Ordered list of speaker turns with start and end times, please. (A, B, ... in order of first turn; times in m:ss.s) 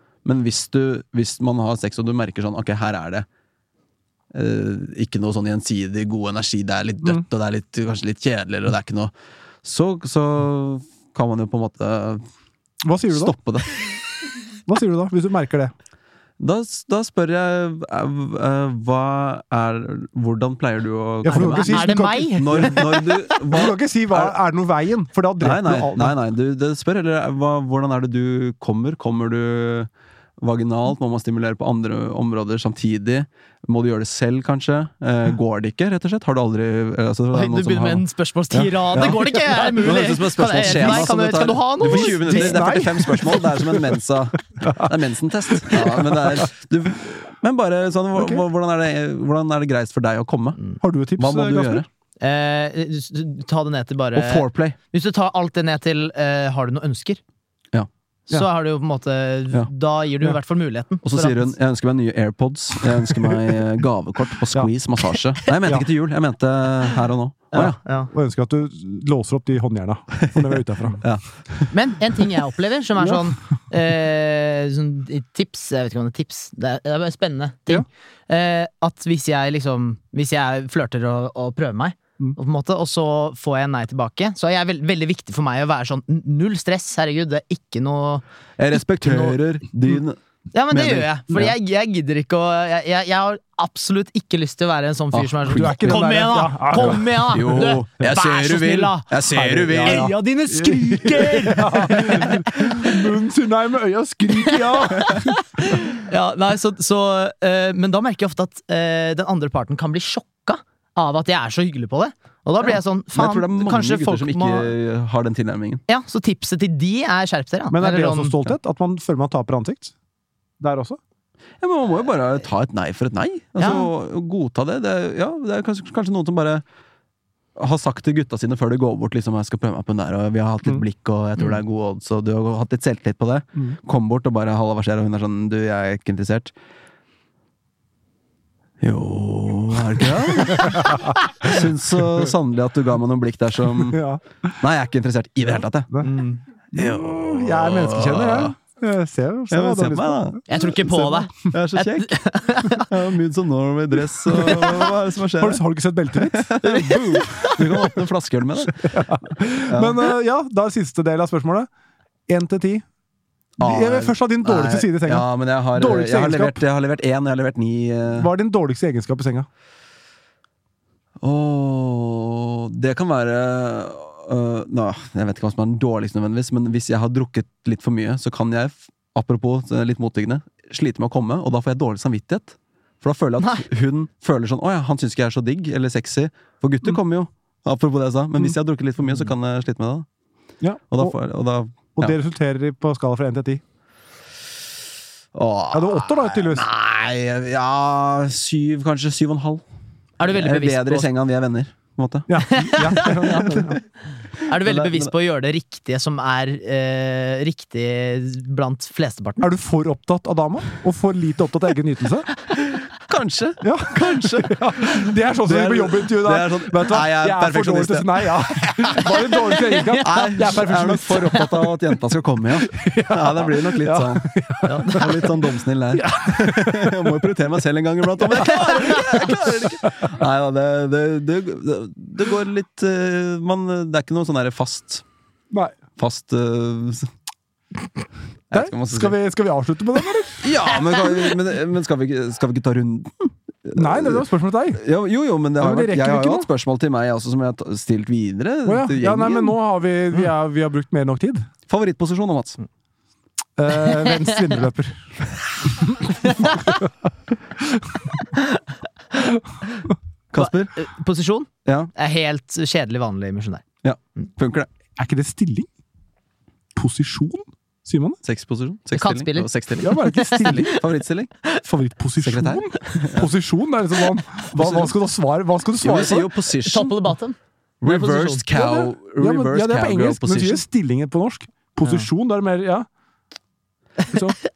0:00.2-0:03.2 A
0:04.3-0:09.1 A
0:09.6-0:12.2 A
0:12.8-0:13.3 B
0:13.1-0:14.0 A
0:14.7-0:15.7 B
0:16.4-0:24.3 A
0:21.2-0:22.9 B
0:21.3-0:23.4 C
0:23.5-0:26.1 B
0:25.4-0:29.9 A
0:30.4-0:50.6 A
0:37.3-0:43.1 C
0:40.6-0:44.0 B
0:44.6-0:44.9 B
0:45.5-0:46.5 B
0:48.1-0:48.4 B
0:50.8-0:51.8 B
0:51.2-0:51.9 A
0:52.2-0:57.2 C
0:54.2-0:54.8 A
0:58.3-1:01.5 C
1:01.0-1:07.8 A
1:07.5-1:08.1 C
1:08.1-1:11.0 B
1:10.1-1:10.5 A
1:11.0-1:11.7 A
1:11.7-1:28.2 C
1:28.6-1:30.2 A
1:29.0-1:29.4 C
1:30.5-1:42.8 C
1:30.7-1:31.5 A
1:35.1-1:36.1 A
1:35.5-1:37.2 B
1:36.7-1:40.1 A
1:39.3-1:45.4 B
1:44.9-1:54.7 C
1:53.1-1:55.8 A
1:55.9-1:58.4 C
1:57.7-1:59.9 B
2:00.6-2:01.0 B
2:01.6-2:06.6 A
2:03.6-2:03.9 C
2:07.6-2:16.5 A
2:18.8-2:24.0 A
2:20.5-2:21.0 B
2:23.9-2:24.2 B
2:24.6-2:26.0 A
2:25.9-2:31.5 B
2:26.7-2:28.5 A
2:29.5-2:30.4 A
2:30.5-2:32.9 C
2:31.3-2:38.9 A
2:34.4-2:34.7 B
2:35.4-2:36.5 B
2:36.6-2:37.9 C
2:38.8-2:41.7 B
2:39.6-2:40.1 A
2:42.3-2:42.8 B
2:43.6-2:48.3 A
2:43.6-2:46.6 B
2:48.1-2:49.5 B
2:51.2-3:10.0 A
3:10.6-3:11.2 B
3:10.9-3:12.2 A
3:12.0-3:13.6 B
3:15.3-3:19.6 A
3:15.7-3:16.7 B
3:20.2-3:21.1 C
3:20.2-3:23.8 A
3:22.3-3:23.8 B
3:22.4-3:23.5 C
3:24.4-3:25.1 A
3:24.4-3:29.4 C
3:29.4-3:32.3 B
3:32.6-3:39.3 A
3:33.6-3:41.5 B
3:39.5-3:40.3 C
3:40.0-3:55.0 A
3:42.6-3:45.3 B
3:44.6-3:45.1 C
3:45.9-3:47.3 B
3:48.2-3:50.1 B
3:55.5-3:55.8 B
3:56.0-3:57.1 A
3:58.5-3:59.2 A
3:58.5-4:00.5 B
4:00.4-4:04.2 A
4:03.8-4:04.8 B
4:04.8-4:09.6 A
4:05.6-4:06.5 B
4:08.6-4:11.5 B
4:11.7-4:12.6 A
4:13.6-4:15.1 B
4:15.7-4:16.1 B
4:16.2-4:16.8 C
4:20.3-4:20.8 A
4:20.4-4:23.6 C
4:21.6-4:21.9 A
4:23.8-4:24.7 A
4:25.0-4:25.7 B
4:26.7-4:28.2 B
4:28.2-4:31.3 A
4:28.9-4:30.7 C
4:29.8-4:30.8 B
4:31.6-4:36.3 B
4:32.2-4:33.3 A
4:34.5-4:34.9 A
4:35.8-4:37.1 A
4:36.6-4:38.5 C
4:37.8-4:40.6 A
4:38.5-4:42.9 B
4:44.1-4:44.4 B